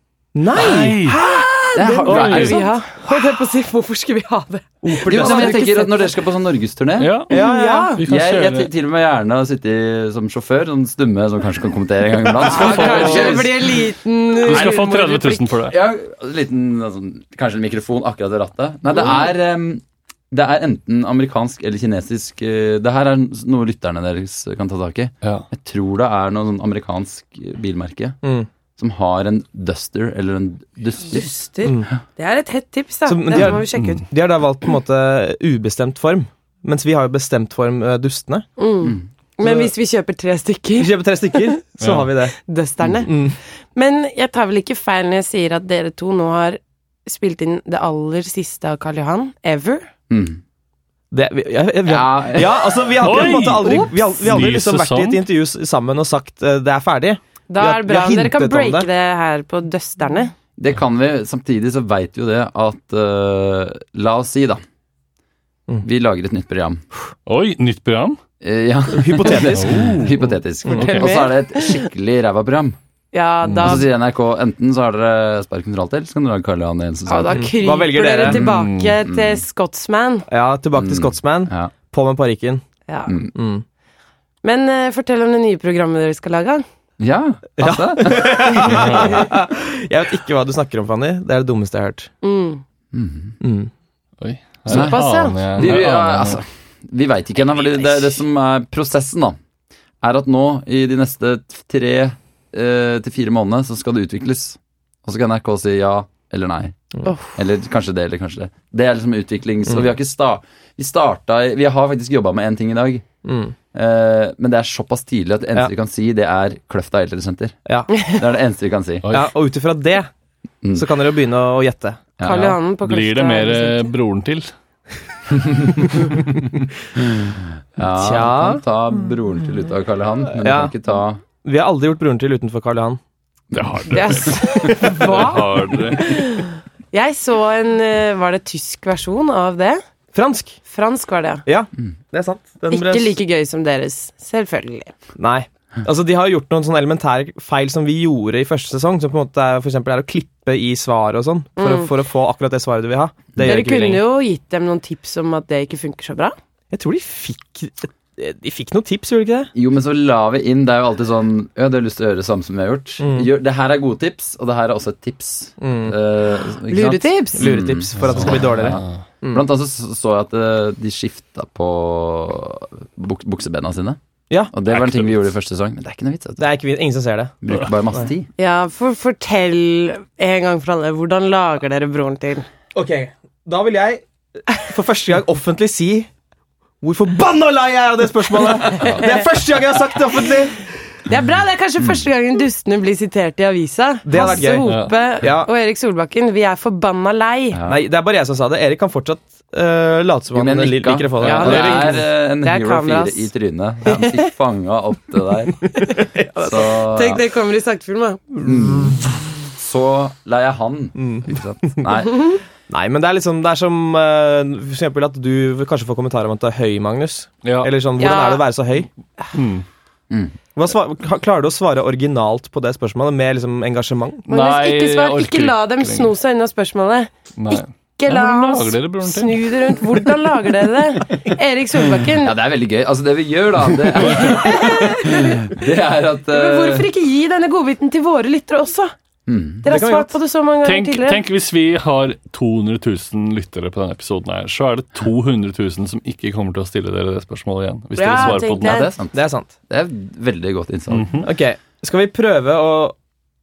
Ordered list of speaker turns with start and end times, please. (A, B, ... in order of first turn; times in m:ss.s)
0:00.4-0:01.2 A
0:00.6-0:01.2 B
0:01.0-0:06.1 C
0:01.8-0:02.7 D
0:02.1-0:02.6 B
0:04.8-0:05.7 A
0:05.1-0:07.2 D
0:07.0-0:07.4 B
0:07.3-0:08.0 A
0:07.3-0:08.0 C
0:08.0-0:08.7 B
0:08.1-0:13.8 D
0:12.5-0:15.5 C
0:12.5-0:13.5 B
0:14.4-0:15.8 B
0:15.7-0:28.2 D
0:28.2-0:28.5 A
0:28.8-0:31.3 D
0:31.1-0:34.1 C
0:33.1-0:38.5 A
0:33.4-0:34.0 B
0:38.6-0:41.6 C
0:39.4-0:39.7 A
0:40.8-0:42.4 A
0:41.8-0:42.1 B
0:42.3-0:43.2 C
0:43.0-0:43.4 A
0:43.8-0:49.9 C
0:50.1-0:50.4 D
0:51.1-0:58.9 A
0:51.8-0:53.1 D
0:53.0-0:55.2 B
0:57.5-1:00.3 C
1:00.6-1:04.6 D
1:05.8-1:06.8 D
1:07.3-1:08.2 B
1:08.4-1:12.8 D
1:08.9-1:10.0 A
1:09.6-1:10.2 B
1:10.7-1:11.8 C
1:10.7-1:11.1 B
1:13.1-1:13.9 C
1:13.5-1:13.7 B
1:13.6-1:17.5 D
1:17.1-1:20.3 C
1:17.3-1:18.4 A
1:18.2-1:19.4 D
1:18.4-1:19.0 B
1:20.3-1:22.6 A
1:20.7-1:21.7 D
1:22.9-1:23.1 C
1:23.1-1:23.3 D
1:23.4-1:23.6 A
1:24.4-1:26.6 C
1:27.0-1:29.0 D
1:27.6-1:32.1 A
1:28.7-1:29.2 B
1:32.2-1:32.6 C
1:32.9-1:33.4 D
1:33.4-1:33.7 A
1:34.2-1:36.4 B
1:34.7-1:35.0 D
1:34.7-1:35.4 C
1:35.5-1:39.4 D
1:37.6-1:38.1 C
1:40.0-1:53.1 D
1:47.0-1:47.3 C
1:53.2-1:53.6 A
1:53.7-1:59.1 D
1:59.0-1:59.3 B
1:59.1-2:00.1 A
2:00.8-2:02.0 A
2:02.2-2:02.6 D
2:02.2-2:03.9 C
2:02.8-2:04.5 B
2:05.3-2:05.9 D
2:07.0-2:11.2 D
2:07.9-2:08.6 A
2:10.4-2:10.7 A
2:11.4-2:13.0 A
2:13.5-2:16.3 B
2:13.9-2:19.8 C
2:20.1-2:20.6 A
2:20.7-2:21.4 C
2:21.5-2:23.2 A
2:22.7-2:24.9 C
2:25.2-2:34.0 A
2:31.6-2:31.9 C
2:33.4-2:36.4 C
2:36.7-2:39.5 A
2:39.5-2:54.0 D
2:43.0-2:43.3 A
2:45.6-2:46.0 A
2:46.7-2:47.6 C
2:47.4-2:49.4 A
2:48.0-2:49.0 B
2:54.5-2:56.4 D
2:54.7-2:55.2 B
2:56.4-2:57.4 A
2:57.4-2:58.3 D
2:58.4-3:02.5 C
3:02.7-3:06.1 A
3:06.8-3:10.6 A
3:08.8-3:09.2 C
3:11.0-3:17.6 C
3:14.1-3:15.5 A
3:14.6-3:14.9 B
3:17.5-3:17.8 D
3:17.7-3:22.0 A
3:20.3-3:25.8 D
3:21.2-3:23.3 C
3:23.9-3:24.2 C
3:25.8-3:28.4 C
3:26.4-3:27.2 D
3:28.4-3:32.4 D
3:31.0-3:31.9 A
3:32.7-3:38.9 A
3:37.4-3:37.7 B
3:38.0-3:38.4 C
3:39.3-3:39.6 B
3:40.6-3:44.3 A
3:44.3-3:46.1 B
3:44.3-3:52.4 C
3:47.4-3:49.8 B
3:52.2-3:56.9 D
3:54.0-3:55.6 C
3:56.3-3:58.9 C
3:59.3-3:59.6 D
3:59.6-4:01.2 C
3:59.7-4:00.1 A
4:00.6-4:08.8 B
4:08.0-4:08.9 C
4:08.1-4:09.2 D
4:09.1-4:09.5 A
4:09.7-4:11.2 D
4:10.9-4:11.3 B
4:11.2-4:13.0 A